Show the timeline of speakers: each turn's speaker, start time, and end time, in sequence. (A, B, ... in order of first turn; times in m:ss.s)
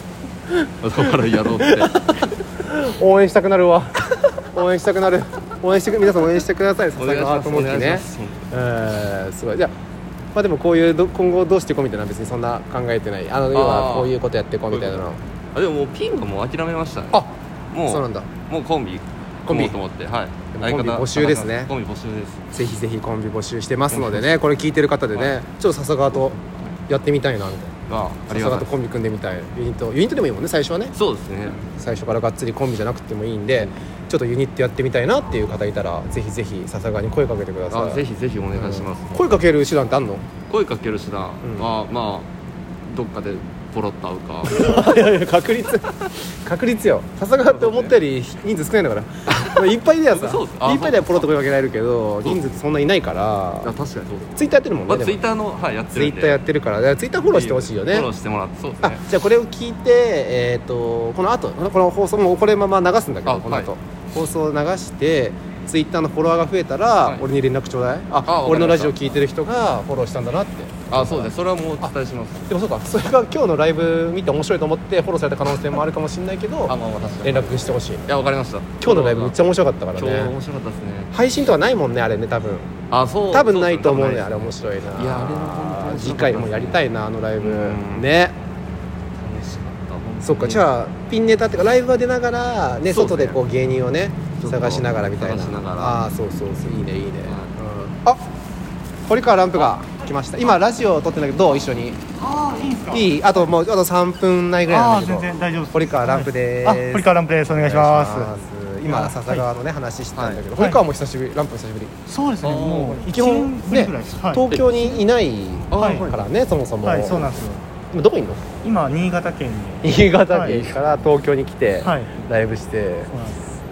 0:00.8-0:02.4 A
0:01.3-0:09.7 B
0:07.0-0:08.5 A
0:10.4-0:15.2 B
0:13.6-0:14.1 A
0:14.7-0:15.0 A
0:15.6-0:17.2 A
0:17.1-0:18.3 B
0:17.7-0:22.4 A
0:19.5-0:19.8 B
0:20.5-0:21.7 B
0:22.5-0:27.7 B
0:23.9-0:24.3 A
0:26.4-0:26.7 A
0:27.9-0:28.7 A
0:28.3-0:31.0 B
0:31.0-0:31.6 A
0:31.6-0:38.0 B
0:37.7-0:39.2 A
0:38.5-0:40.3 B
0:40.5-0:42.3 A
0:41.4-0:41.7 B
0:42.9-0:44.6 A
0:44.4-0:53.7 B
0:47.5-0:47.9 A
0:49.3-0:49.6 A
0:50.2-0:51.2 A
0:53.6-0:54.4 A
0:54.3-0:55.2 B
0:54.9-0:56.4 A
0:55.9-0:58.1 B
0:57.2-0:59.0 A
0:58.8-1:11.9 B
1:03.3-1:03.7 A
1:08.3-1:08.9 A
1:10.9-1:12.5 A
1:12.5-1:18.1 B
1:16.7-1:19.3 A
1:18.8-1:20.3 B
1:20.0-1:21.1 A
1:21.1-1:22.7 B
1:22.9-1:26.8 A
1:23.3-1:28.4 B
1:27.4-1:28.0 A
1:29.2-1:30.6 A
1:30.2-1:38.2 B
1:32.9-1:33.3 A
1:34.4-1:36.0 A
1:37.3-1:37.6 A
1:39.1-1:42.0 B
1:42.2-1:43.2 C
1:42.9-1:51.9 B
1:44.7-1:48.3 C
1:48.8-1:49.5 C
1:50.6-1:50.8 C
1:52.1-1:54.6 C
1:52.4-1:53.0 A
1:53.0-1:57.4 B
1:55.7-1:56.2 A
1:55.7-1:56.1 C
1:56.8-1:57.6 C
1:57.9-1:58.5 B
1:58.6-2:00.7 C
1:59.8-2:03.1 B
2:01.8-2:02.1 C
2:03.1-2:03.4 C